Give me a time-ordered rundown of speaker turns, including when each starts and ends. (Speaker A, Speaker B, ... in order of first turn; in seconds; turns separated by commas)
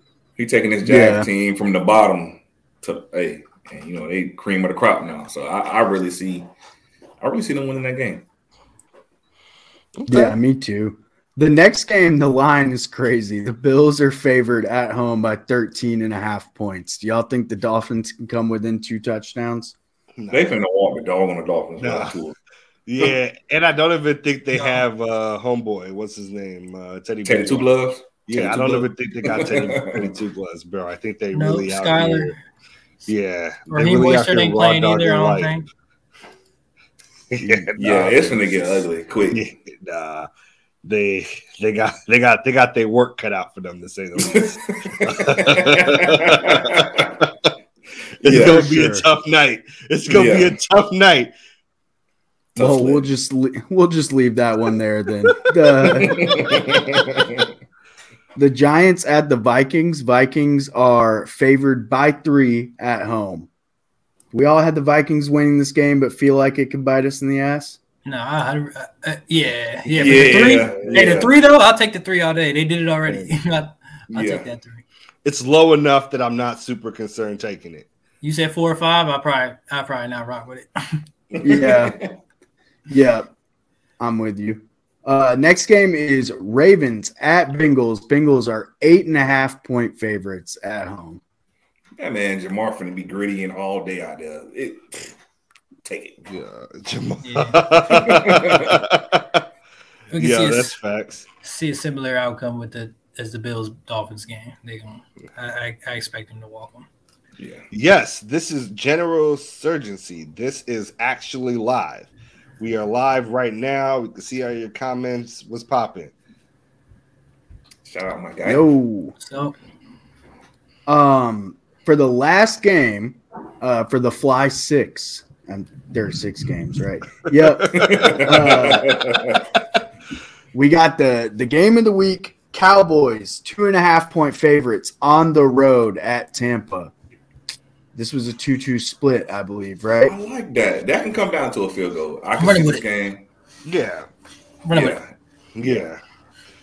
Speaker A: 0.4-6.5, Speaker B: 0.8-1.3, Speaker A: 7.2-8.2, Speaker C: 10.0-10.3, Speaker B: 10.1-19.7, Speaker C: 20.2-20.4, Speaker A: 20.3-22.4, Speaker C: 21.8-22.2, Speaker C: 22.9-27.7, Speaker D: 24.5-24.8, Speaker A: 27.2-30.1, Speaker C: 28.2-32.3, Speaker D: 31.3-32.4, Speaker C: 33.1-35.5, Speaker D: 33.7-35.7, Speaker C: 37.3-40.3, Speaker A: 37.8-39.5, Speaker C: 40.8-47.5, Speaker A: 44.2-47.1, Speaker C: 48.2-51.3, Speaker A: 48.2-48.7, Speaker B: 48.2-49.0, Speaker A: 50.1-50.5, Speaker B: 52.5-56.4, Speaker A: 52.5-53.1, Speaker A: 55.8-57.5, Speaker B: 58.4-63.5, Speaker B: 64.3-67.8, Speaker D: 68.0-74.8, Speaker C: 70.0-71.3, Speaker A: 70.0-71.3, Speaker A: 74.1-74.5, Speaker C: 75.2-77.9, Speaker D: 78.2-81.0, Speaker A: 81.3-82.1, Speaker B: 81.4-82.0, Speaker B: 82.9-83.3, Speaker B: 84.0-91.2, Speaker A: 92.0-95.1, Speaker A: 95.8-96.2, Speaker C: 96.3-99.4, Speaker D: 97.2-97.8, Speaker A: 97.9-98.7, Speaker D: 100.1-100.8, Speaker C: 100.2-101.2, Speaker D: 101.4-106.9, Speaker A: 107.4-107.7, Speaker C: 107.7-116.1, Speaker A: 117.8-118.7, Speaker B: 118.4-119.1, Speaker D: 119.2-119.5, Speaker B: 120.9-129.1, Speaker A: 127.7-129.4, Speaker C: 127.8-128.1, Speaker B: 130.5-136.9, Speaker B: 137.9-140.1, Speaker A: 140.1-143.2, Speaker D: 142.4-142.8, Speaker C: 143.6-144.1, Speaker D: 144.7-145.0, Speaker A: 144.7-145.9, Speaker C: 145.6-146.0